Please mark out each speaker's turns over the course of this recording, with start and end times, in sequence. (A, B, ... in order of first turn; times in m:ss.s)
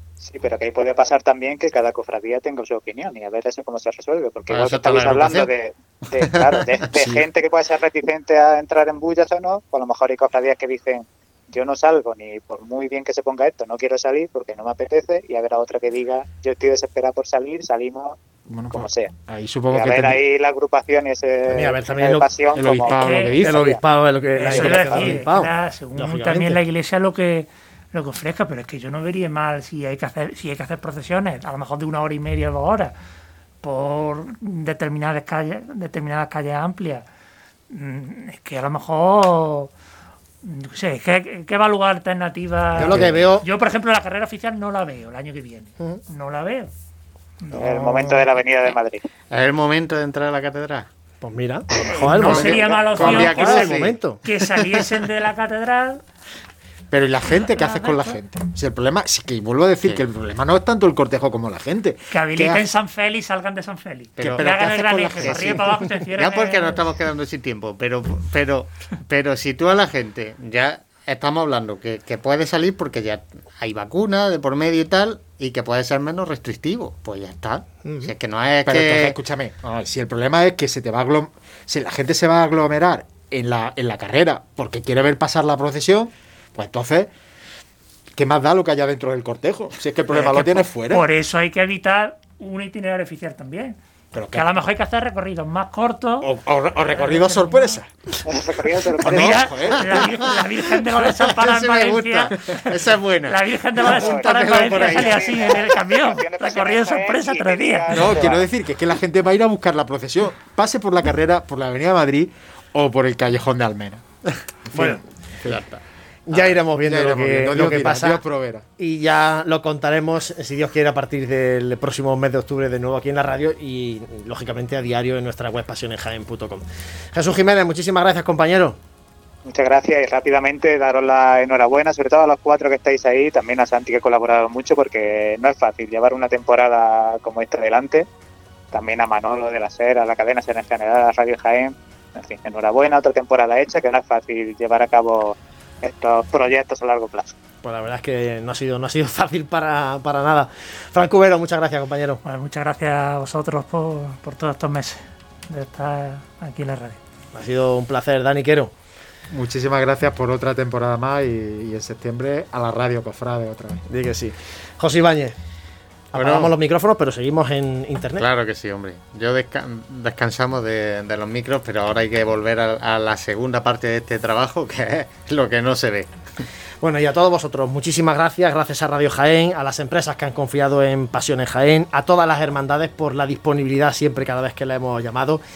0:00.2-0:18.2 A
0:04.5-0:05.5 B
0:06.2-0:07.3 B
0:18.5-0:20.2 C
0:18.7-0:19.1 A
0:19.7-0:23.8 A
0:21.5-0:22.3 D
0:22.5-0:23.8 C
0:22.9-0:23.4 E
0:23.4-0:26.6 D
0:24.4-0:32.9 E
0:24.4-0:25.2 A
0:33.6-0:37.0 E
0:37.7-0:39.7 E
0:40.4-0:46.7 E
0:42.7-0:43.4 D
0:47.4-0:48.3 E
0:47.6-0:49.0 A
0:49.3-0:50.9 B
0:51.2-0:54.2 D
0:51.7-0:53.9 B
0:51.9-0:56.0 E
0:52.2-0:53.8 C
0:56.9-1:02.6 C
0:57.4-0:58.2 E
1:02.1-1:06.8 E
1:04.2-1:19.7 B
1:04.2-1:05.6 C
1:17.8-1:18.1 D
1:18.6-1:27.1 C
1:28.1-1:31.0 C
1:30.1-1:33.8 E
1:34.1-1:34.6 C
1:34.3-1:36.3 E
1:36.2-1:37.9 C
1:36.9-1:37.8 E
1:38.3-1:39.4 A
1:39.0-1:40.3 C
1:39.0-1:42.7 E
1:39.9-1:40.3 B
1:41.0-1:45.3 B
1:43.3-1:48.3 E
1:43.9-1:48.5 A
1:47.9-1:54.0 C
1:54.7-1:55.6 C
1:54.7-1:55.0 D
1:55.4-1:55.8 B
1:56.3-1:58.2 D
1:56.3-1:58.6 C
1:58.8-2:08.8 D
2:09.4-2:18.1 A
2:18.7-2:27.3 A
2:27.6-2:32.2 D
2:32.2-2:37.0 E
2:37.3-2:38.7 D
2:39.3-2:43.8 C
2:43.9-2:45.3 D
2:46.1-2:48.2 D
2:46.2-2:46.5 B
2:48.2-2:56.4 B
2:56.8-3:05.4 D